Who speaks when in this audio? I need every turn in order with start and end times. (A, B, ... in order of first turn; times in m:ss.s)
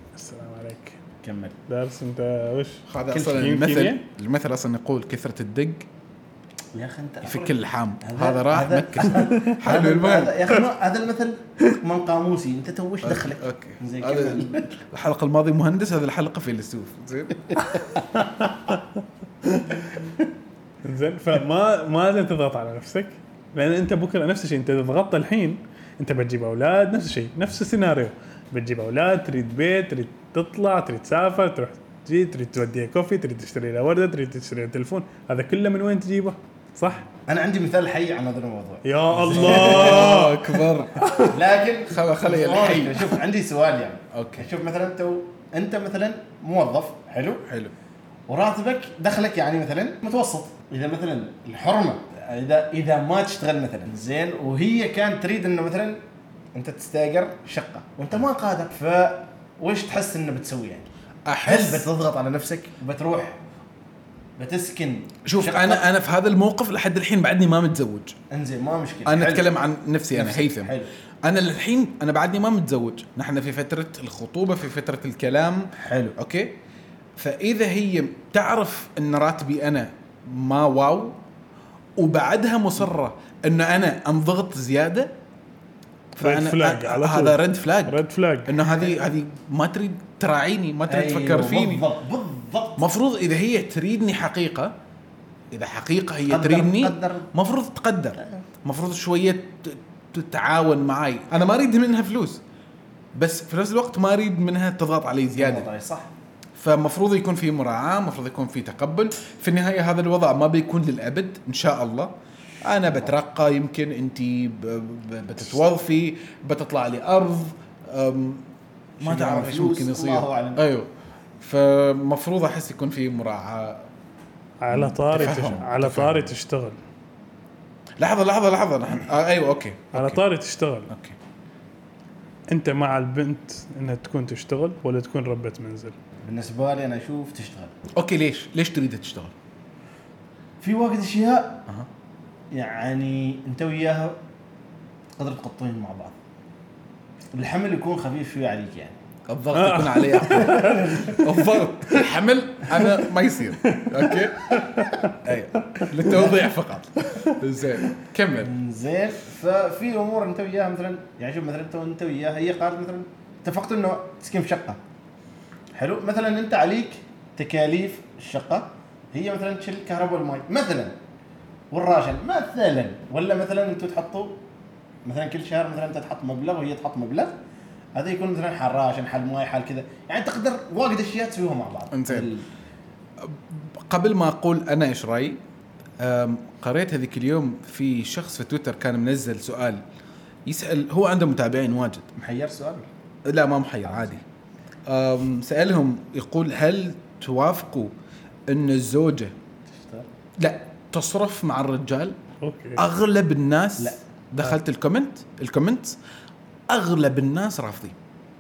0:00.2-0:01.0 A
0:01.2-0:01.6 B
0:01.7-0:04.0 A
0:02.9-0:05.9 C
0:06.7-0:14.7 B
0:07.2-0:10.4 C
0:13.0-0:17.6 C
0:17.8-0:18.8 A
0:19.4-0:19.9 A
0:20.8-0:37.1 A
0:37.3-0:40.3 B
0:38.8-0:41.4 A
0:39.2-0:41.2 C
0:41.2-0:47.4 B
0:41.9-0:43.1 C
0:44.1-0:44.5 C
0:47.5-0:47.7 C
0:48.3-0:56.0 B
0:56.6-1:00.9 B
1:01.3-1:01.9 C
1:01.4-1:03.4 B
1:04.4-1:05.8 B
1:05.2-1:08.2 C
1:08.3-1:09.5 B
1:09.1-1:16.6 C
1:10.1-1:10.9 B
1:15.8-1:16.1 B
1:17.2-1:21.2 C
1:22.0-1:25.1 C
1:26.2-1:31.9 C
1:26.2-1:28.5 A
1:30.9-1:32.8 B
1:32.8-1:34.7 C
1:35.5-1:42.4 C
1:36.3-1:37.3 B
1:43.2-1:45.7 C
1:45.3-1:46.1 B
1:46.6-1:58.4 C
1:52.8-1:53.1 B
1:59.0-2:00.9 C
1:59.0-2:00.6 B
2:01.4-2:03.8 C
2:04.6-2:06.8 A
2:04.7-2:06.3 C
2:08.0-2:10.2 C
2:09.9-2:10.9 A
2:10.9-2:11.2 C
2:12.5-2:16.0 A
2:16.2-2:17.7 B
2:18.0-2:19.3 C
2:20.6-2:21.6 B
2:22.5-2:24.2 B
2:25.2-2:26.2 B
2:27.3-2:29.0 B
2:29.3-2:34.7 C
2:29.5-2:31.2 A
2:30.2-2:31.2 B
2:33.8-2:35.1 A
2:35.2-2:38.5 C
2:36.1-2:36.4 B
2:38.4-2:44.8 B
2:45.8-2:51.0 B
2:51.7-2:54.4 B
2:55.0-2:57.4 B
2:58.0-3:02.5 B
3:01.9-3:02.3 C
3:03.2-3:05.4 C
3:06.0-3:09.8 C
3:10.5-3:12.1 C
3:12.2-3:12.9 B
3:13.3-3:14.2 C
3:14.9-3:17.9 C
3:18.5-3:19.3 C
3:19.7-3:20.1 B
3:20.4-3:22.2 C
3:22.4-3:22.8 A
3:22.8-3:26.0 C
3:26.7-3:28.0 C